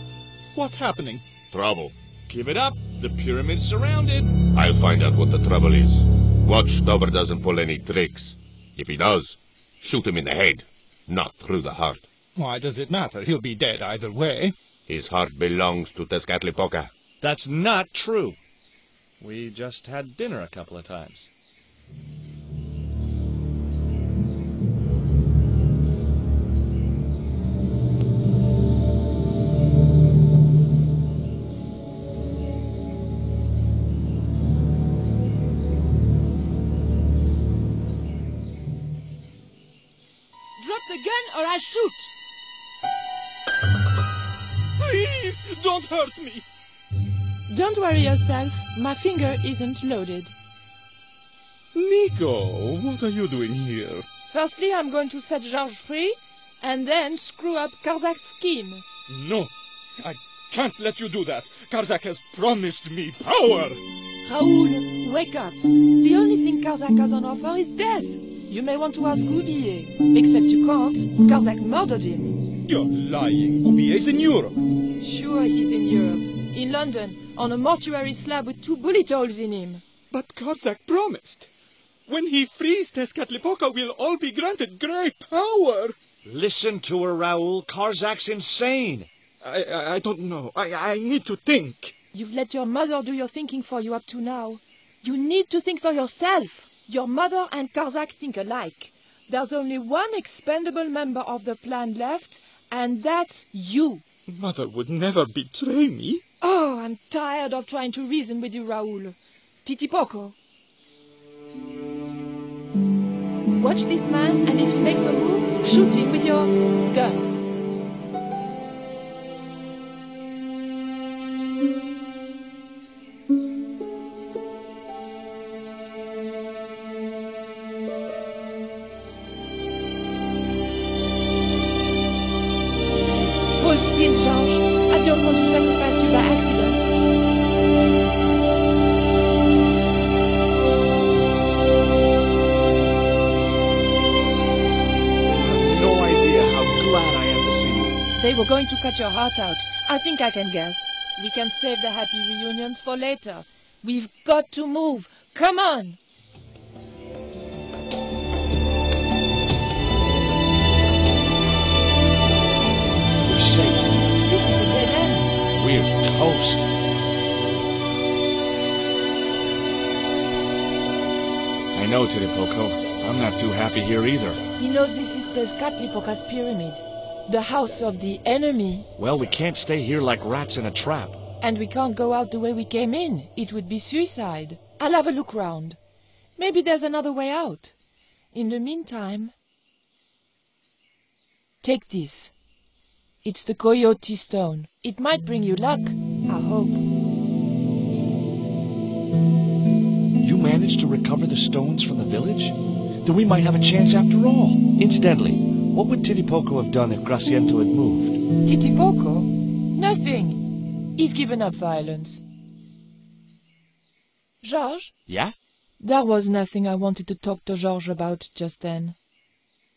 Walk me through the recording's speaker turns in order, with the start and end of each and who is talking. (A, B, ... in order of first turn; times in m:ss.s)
0:00.5-0:01.2 A
0:01.5-0:01.9 B
0:02.3-0:04.3 C
0:04.5-0:12.0 B
0:12.4-0:14.5 A
0:14.9-0:16.9 B
0:17.2-0:18.4 C
0:19.2-0:21.3 C
0:40.6-0:42.1 D
0:44.8-0:46.4 A
0:47.5-0:50.3 D
0:51.7-0:54.0 A
0:54.3-0:58.8 D
0:59.1-0:59.5 A
1:00.0-1:03.8 A
1:04.2-1:12.4 D
1:12.6-1:14.6 A
1:15.0-1:19.8 D
1:20.1-1:21.5 A
1:22.1-1:25.9 A
1:26.2-1:29.1 C
1:29.4-1:31.9 A
1:32.1-1:44.0 D
1:44.3-1:46.2 A
1:46.4-1:50.4 D
1:53.6-1:57.3 D
2:13.6-2:16.9 D
2:25.3-2:27.9 C
2:28.2-2:36.0 D
2:43.2-2:44.1 C
2:44.2-2:45.4 D
2:45.5-2:46.7 C
2:51.7-2:54.4 C
2:54.6-2:58.9 D
2:59.0-3:01.2 C
3:01.4-3:05.8 D
3:06.4-3:07.7 D
3:08.3-3:09.3 D
3:11.6-3:12.3 D
3:13.2-3:16.8 D
3:20.2-3:28.2 C
3:28.4-3:32.2 D
3:34.4-3:34.9 D
3:35.1-3:35.3 C
3:35.8-3:39.0 D